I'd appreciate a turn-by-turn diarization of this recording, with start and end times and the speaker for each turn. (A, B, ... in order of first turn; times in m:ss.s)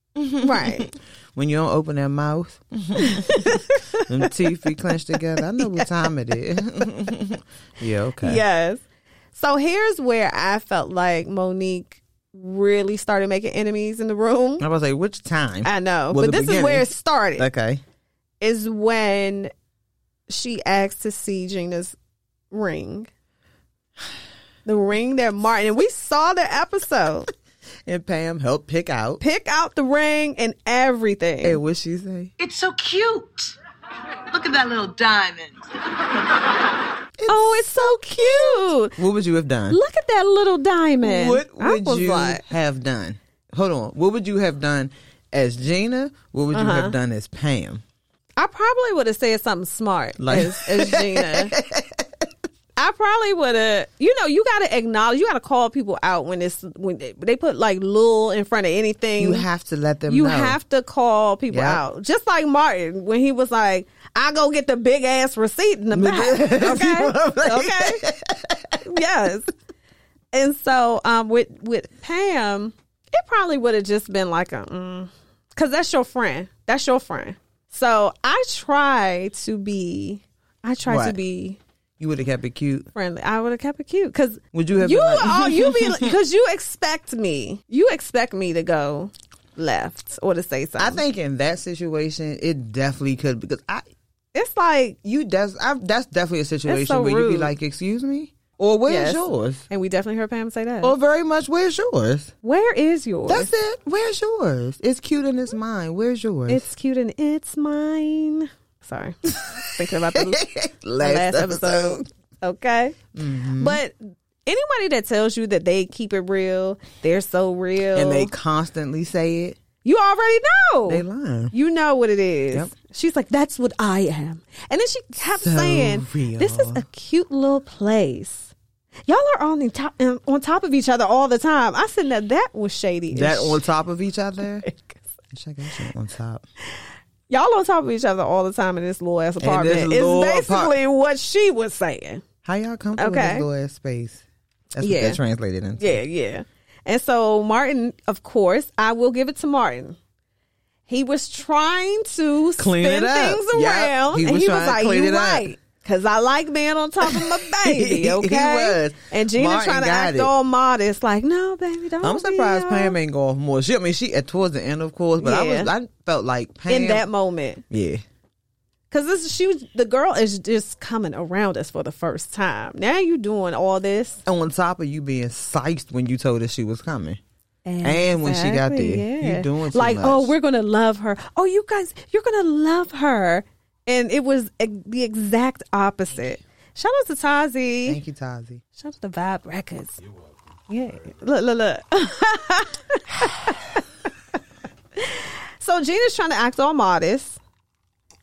0:00.2-0:08.4 A
0:00.4-0:00.9 B
0:03.0-0:04.4 B
0:05.6-0:05.8 B
0:08.2-0:08.8 B
0:09.3-0:14.6 B
0:14.6-0:17.8 A
0:15.6-0:17.4 B
0:18.4-0:19.5 B
0:20.3-0:22.0 B
0:22.5-0:23.1 B
0:24.6-0:27.3 B
0:27.8-0:29.2 A
0:29.2-0:31.6 B
0:31.4-0:32.3 A
0:32.4-0:33.6 C
0:34.3-0:35.7 C
0:37.2-0:39.8 A
0:37.3-0:39.0 B
0:39.7-0:42.4 B
0:41.0-0:47.8 A
0:46.5-0:46.9 B
0:48.4-0:51.5 B
0:50.2-0:52.1 A
0:52.8-0:59.4 B
0:59.2-1:00.6 A
1:00.1-1:08.0 B
1:01.5-1:01.8 A
1:05.9-1:08.8 A
1:08.8-1:09.5 B
1:10.3-1:21.6 B
1:20.8-1:21.2 A
1:22.0-1:22.9 A
1:22.9-1:31.0 B
1:24.5-1:26.1 A
1:30.8-1:33.9 A
1:34.3-1:35.0 B
1:35.0-1:39.6 A
1:36.7-1:37.5 B
1:38.9-1:41.0 B
1:40.8-1:42.3 A
1:42.4-1:43.5 B
1:43.3-1:46.7 A
1:46.5-1:50.4 B
1:49.3-1:52.0 A
1:51.0-1:53.0 B
1:53.1-1:53.8 A
1:53.6-1:58.3 B
1:57.9-1:59.6 A
1:59.8-2:08.5 B
2:00.9-2:01.5 A
2:05.3-2:06.8 A
2:09.1-2:13.6 B
2:13.1-2:14.6 A
2:14.6-2:15.0 B
2:15.3-2:16.4 A
2:17.3-2:22.2 B
2:19.4-2:20.7 A
2:22.4-2:24.2 A
2:23.0-2:23.4 B
2:24.7-2:26.0 A
2:24.8-2:25.2 B
2:25.8-2:30.0 B
2:30.9-2:43.0 B
2:32.6-2:35.4 A
2:37.0-2:40.3 A
2:42.0-2:47.0 A
2:45.2-2:45.7 B
2:46.7-2:47.6 B
2:47.7-2:48.0 A
2:48.9-2:54.2 B
2:54.2-2:57.2 A
2:57.6-3:08.0 B
2:57.8-3:00.3 A
3:07.9-3:08.6 A
3:08.8-3:10.0 B
3:10.7-3:13.8 B
3:15.0-3:17.4 B